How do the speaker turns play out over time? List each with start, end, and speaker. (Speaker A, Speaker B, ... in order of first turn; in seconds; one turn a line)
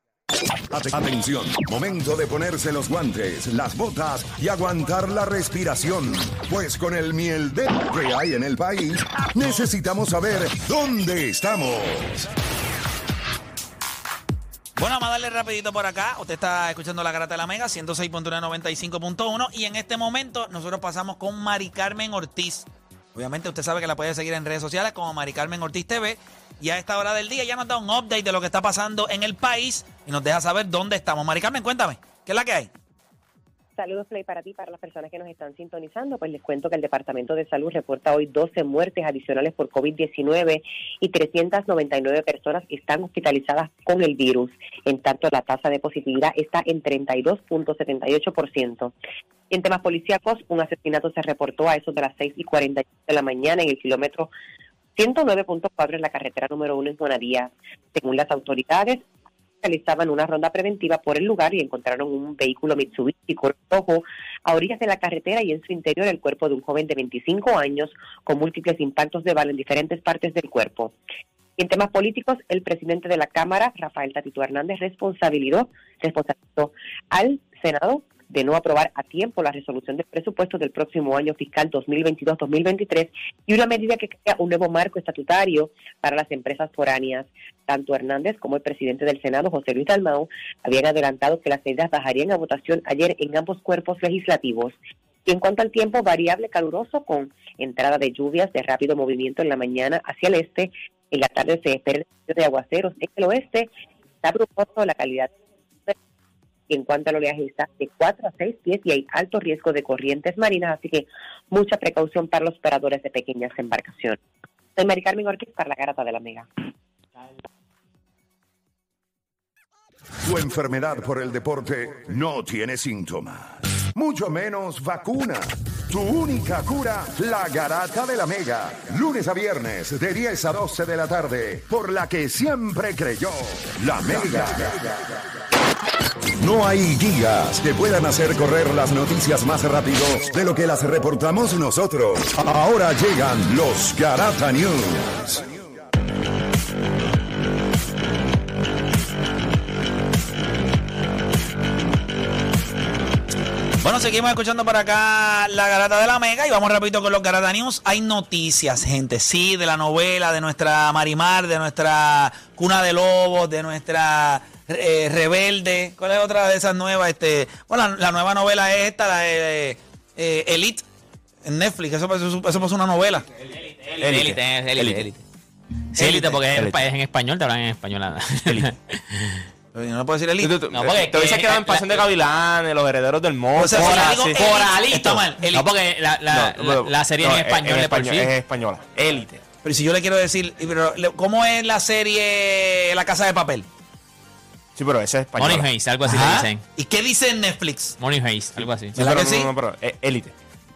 Speaker A: 0.7-12.2
Speaker B: 14.8-32.7
Speaker C: 33.8-48.9
Speaker C: 49.5-54.3
Speaker C: 55.0-59.0
Speaker C: 59.6-71.0
Speaker C: 71.6-103.7
Speaker C: 104.2-105.3
Speaker C: 106.7-114.2
Speaker C: 114.8-116.5
Speaker A: 120.2-135.0
Speaker A: 136.4-145.5
Speaker B: 153.8-170.8
Speaker B: 171.4-173.2
Speaker D: 173.6-175.2
Speaker E: 174.0-175.1
Speaker D: 175.9-179.5
Speaker B: 176.0-176.4
Speaker E: 176.5-176.8
Speaker B: 179.7-180.6
Speaker E: 180.4-184.6
Speaker D: 180.7-182.1
Speaker B: 183.6-185.7
Speaker D: 183.8-188.3
Speaker E: 186.3-189.4
Speaker B: 189.6-193.7
Speaker E: 194.8-195.7
Speaker D: 195.4-196.6
Speaker B: 196.0-198.0
Speaker D: 198.0-199.0
Speaker E: 198.9-200.3
Speaker B: 198.9-199.5